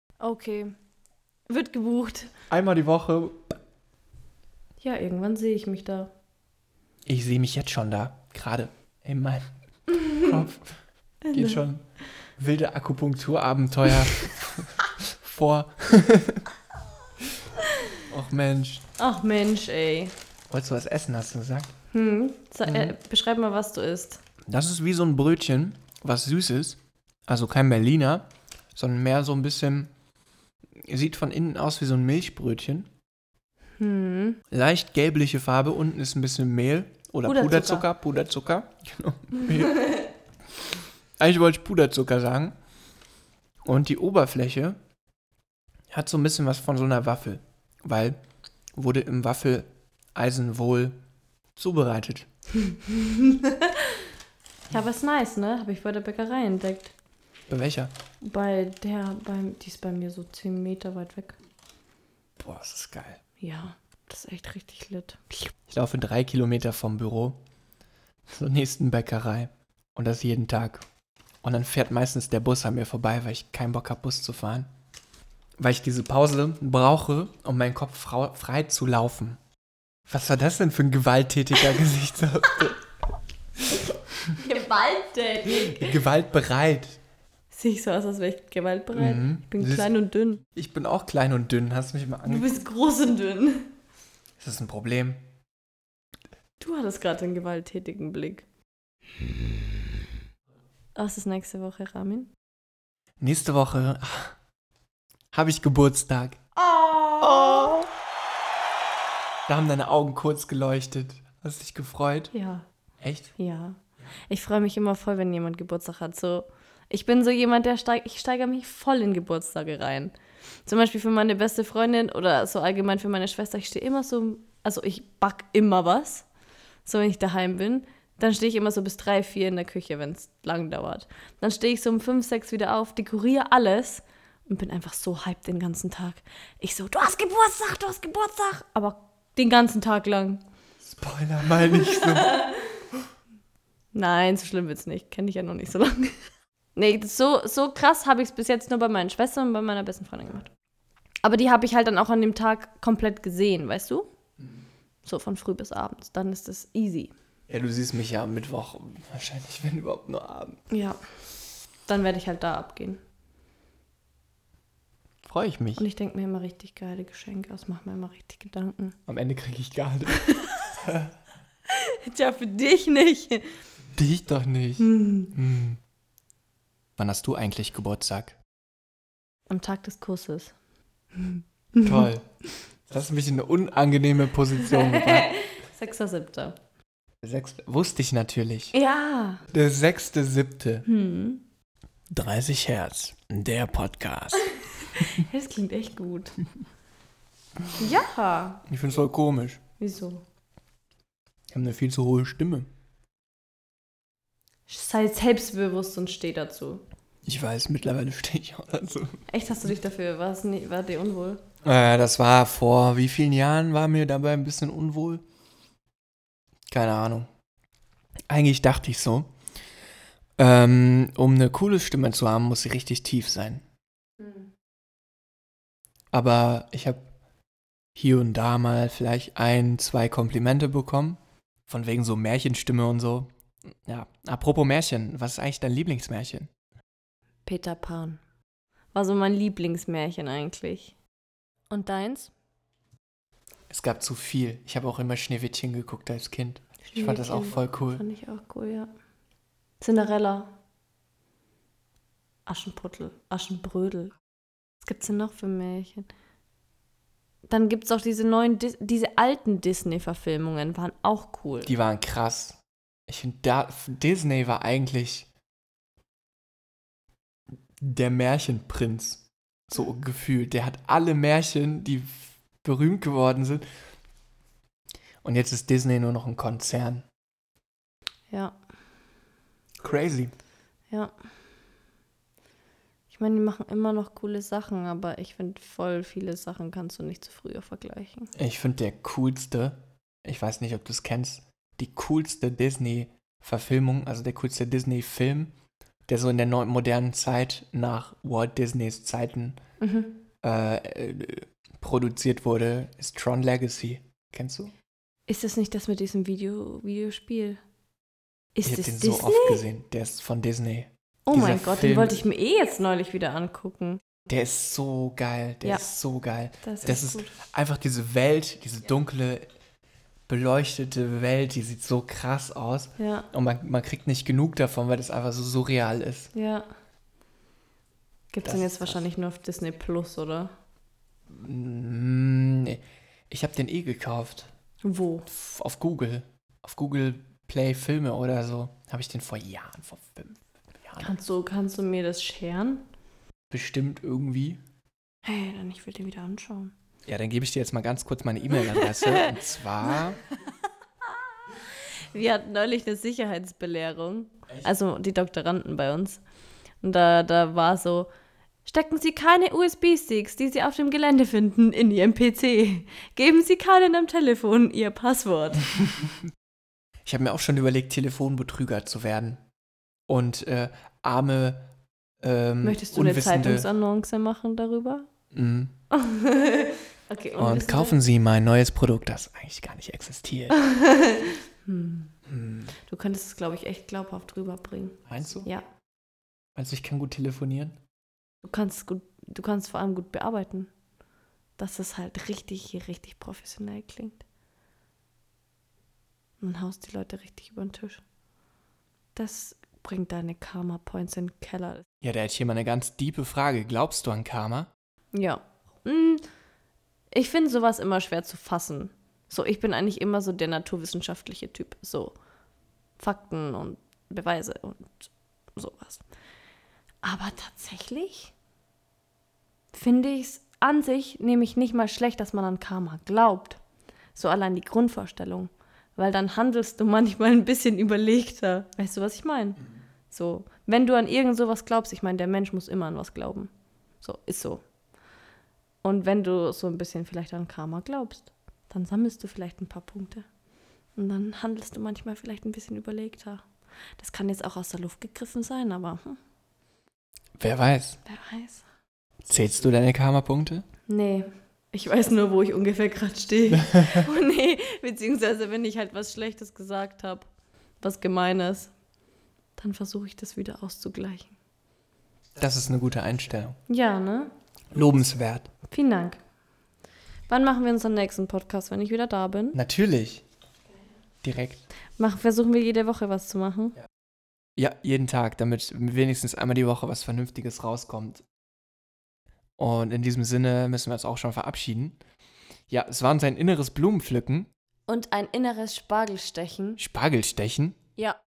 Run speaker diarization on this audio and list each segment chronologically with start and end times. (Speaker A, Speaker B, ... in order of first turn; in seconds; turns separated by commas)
Speaker A: 0.2-0.7, Speaker A: 1.5-2.3, Speaker B: 2.5-3.5, Speaker A: 4.8-6.1, Speaker B: 7.1-9.4, Speaker A: 10.0-10.3, Speaker B: 10.2-10.8, Speaker A: 11.3-11.6, Speaker B: 11.3-11.8, Speaker B: 12.4-16.4, Speaker B: 18.1-18.9, Speaker A: 19.0-20.1, Speaker B: 20.5-21.7, Speaker A: 21.9-24.2, Speaker B: 22.6-22.9, Speaker B: 24.5-29.9, Speaker B: 30.8-32.9, Speaker A: 33.8-34.4, Speaker B: 34.5-40.0, Speaker A: 37.2-37.9, Speaker B: 41.2-42.5, Speaker B: 43.6-44.8, Speaker B: 45.9-48.2, Speaker B: 48.8-51.0, Speaker B: 51.6-52.3, Speaker A: 52.6-54.0, Speaker A: 54.7-56.9, Speaker B: 57.5-57.9, Speaker A: 58.2-61.4, Speaker B: 62.4-63.2, Speaker A: 63.4-65.5, Speaker B: 65.7-67.4, Speaker B: 68.3-70.8, Speaker B: 71.4-74.7, Speaker B: 75.6-79.4, Speaker B: 80.1-82.8, Speaker A: 84.3-86.0, Speaker B: 85.5-87.0, Speaker A: 87.5-90.4, Speaker B: 89.0-89.9, Speaker B: 90.5-92.5, Speaker A: 92.3-93.7, Speaker B: 94.4-95.2, Speaker A: 96.6-98.5, Speaker A: 101.0-102.3, Speaker B: 103.2-104.4, Speaker B: 105.3-106.4, Speaker A: 106.6-107.8, Speaker B: 107.2-107.9, Speaker B: 109.5-112.3, Speaker A: 112.3-112.7, Speaker B: 113.0-113.3, Speaker A: 113.4-120.1, Speaker A: 120.7-126.3, Speaker A: 126.8-140.4, Speaker B: 140.8-142.4, Speaker A: 141.8-142.5, Speaker A: 143.9-146.2, Speaker A: 146.8-150.5, Speaker A: 151.2-154.1, Speaker A: 155.0-157.1, Speaker B: 157.5-160.6, Speaker A: 160.7-161.0, Speaker A: 161.9-163.0, Speaker B: 165.2-165.8, Speaker A: 165.8-169.0, Speaker B: 169.1-171.1, Speaker A: 171.7-173.4, Speaker B: 173.9-175.8, Speaker A: 174.8-175.3, Speaker B: 177.0-178.4, Speaker A: 179.5-180.5, Speaker A: 181.2-182.1, Speaker B: 181.8-182.3, Speaker B: 182.9-185.3, Speaker A: 184.6-186.6, Speaker B: 187.2-188.8, Speaker A: 188.7-189.4, Speaker B: 189.5-190.9, Speaker A: 190.9-191.4, Speaker B: 192.1-194.5, Speaker A: 194.9-196.4, Speaker A: 197.8-198.6, Speaker B: 198.7-199.6, Speaker A: 199.8-200.2, Speaker B: 201.5-202.7, Speaker A: 204.7-206.8, Speaker B: 207.2-209.2, Speaker A: 209.3-211.4, Speaker B: 211.6-215.2, Speaker B: 216.7-217.3, Speaker B: 218.3-219.3, Speaker B: 220.4-223.6, Speaker B: 226.1-227.1, Speaker B: 227.9-233.3, Speaker B: 233.9-236.5, Speaker A: 237.5-238.2, Speaker A: 238.9-240.9, Speaker A: 241.7-242.3, Speaker B: 243.7-248.0, Speaker A: 246.8-248.9, Speaker A: 249.8-250.5, Speaker A: 252.5-254.1, Speaker A: 254.8-256.1, Speaker A: 257.5-261.7, Speaker B: 261.6-265.3, Speaker B: 267.8-273.6, Speaker B: 275.2-277.1, Speaker A: 278.3-278.6, Speaker B: 279.8-280.3, Speaker A: 283.1-288.3, Speaker B: 288.4-295.5, Speaker B: 296.1-299.6, Speaker A: 299.8-300.2, Speaker B: 300.4-304.7, Speaker A: 305.3-307.6, Speaker A: 308.6-309.6, Speaker B: 308.6-312.2, Speaker A: 311.3-314.0, Speaker B: 314.3-319.5, Speaker A: 315.6-315.9, Speaker A: 316.6-317.4, Speaker B: 320.3-326.3, Speaker A: 323.0-323.3, Speaker A: 326.3-326.7, Speaker A: 328.3-330.5, Speaker B: 328.4-329.0, Speaker B: 331.3-334.5, Speaker A: 334.8-335.3, Speaker B: 335.3-341.1, Speaker A: 341.0-342.9, Speaker B: 343.5-344.6, Speaker A: 345.2-346.7, Speaker B: 347.1-350.2, Speaker A: 348.6-349.4, Speaker A: 351.5-356.2, Speaker A: 356.8-358.1, Speaker A: 358.6-365.8, Speaker B: 367.1-369.4, Speaker B: 370.1-371.7, Speaker B: 372.2-373.7, Speaker A: 372.6-375.1, Speaker B: 375.3-375.7, Speaker A: 375.9-378.0, Speaker B: 377.4-380.6, Speaker A: 380.5-382.1, Speaker B: 382.3-382.7, Speaker A: 382.8-385.7, Speaker B: 385.1-385.5, Speaker B: 386.6-387.8, Speaker A: 388.4-390.7, Speaker A: 391.6-394.2, Speaker A: 396.4-398.0, Speaker A: 399.1-401.9, Speaker B: 402.0-404.7, Speaker A: 405.1-406.2, Speaker A: 407.1-412.1, Speaker A: 413.0-416.0, Speaker A: 417.0-418.3, Speaker A: 419.7-423.6, Speaker A: 424.1-433.5, Speaker A: 434.0-434.6, Speaker A: 435.8-440.2, Speaker A: 441.0-443.4, Speaker A: 444.0-446.2, Speaker B: 447.4-448.0, Speaker A: 448.1-448.6, Speaker B: 449.3-450.6, Speaker A: 450.9-457.3, Speaker B: 453.5-454.1, Speaker A: 457.8-458.7, Speaker A: 459.6-461.4, Speaker B: 462.4-463.6, Speaker A: 463.7-464.3, Speaker B: 464.7-465.5, Speaker A: 465.7-466.2, Speaker A: 467.3-469.6, Speaker B: 469.5-470.2, Speaker B: 471.2-471.7, Speaker A: 472.0-473.8, Speaker B: 474.6-478.2, Speaker B: 479.6-482.0, Speaker B: 482.7-484.5, Speaker A: 484.9-486.8, Speaker B: 486.8-487.8